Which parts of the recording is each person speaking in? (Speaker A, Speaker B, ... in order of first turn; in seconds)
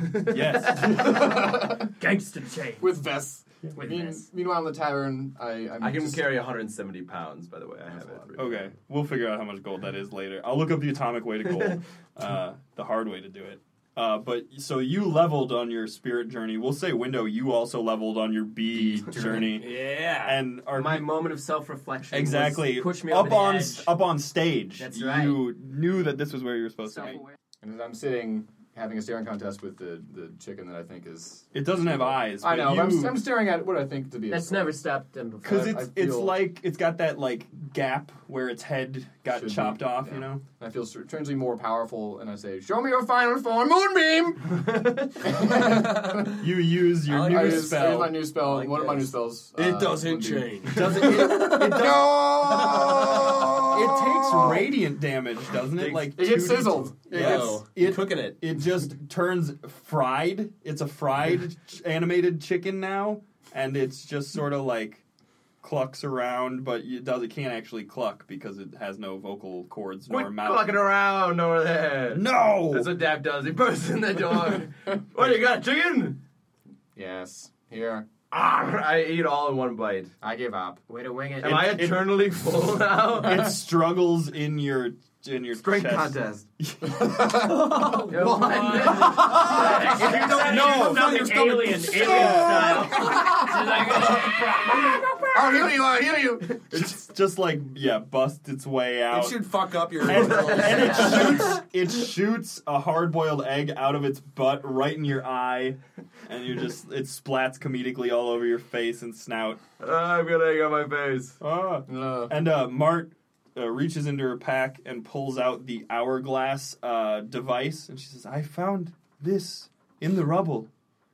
Speaker A: 0.3-1.3, 8.4-21.1, 22.1-27.2, 31.5-33.2, 35.4-40.4, 46.2-48.3, 50.6-65.0, 65.6-70.7, 72.1-72.9, 81.4-82.2, 83.1-87.6, 90.5-90.8, 91.9-93.1, 96.7-99.4, 100.0-109.6, 111.4-120.7
Speaker B: 0.3-3.0, 3.8-4.2, 20.7-23.9, 24.8-25.4, 27.0-27.3, 34.3-35.9, 80.9-81.7, 88.0-95.8, 100.5-101.5
Speaker C: 1.0-1.9, 2.8-6.3, 7.9-8.3, 18.7-19.5, 27.0-34.8, 35.5-36.4, 39.3-44.5, 45.2-46.4, 47.2-54.6, 56.1-57.6, 77.0-78.1, 80.2-80.8, 86.8-88.0, 89.0-90.7, 92.4-94.5, 95.3-96.6, 111.9-112.3
Speaker D: 5.8-8.7, 44.6-45.3, 55.8-56.1, 70.1-76.2, 78.3-80.1, 81.4-83.5, 85.6-86.5, 87.8-90.8, 100.5-100.9, 109.8-111.4
Speaker E: 19.6-20.4, 45.6-46.3, 47.1-53.7, 57.1-58.4, 87.5-88.1, 88.7-92.8, 99.1-101.6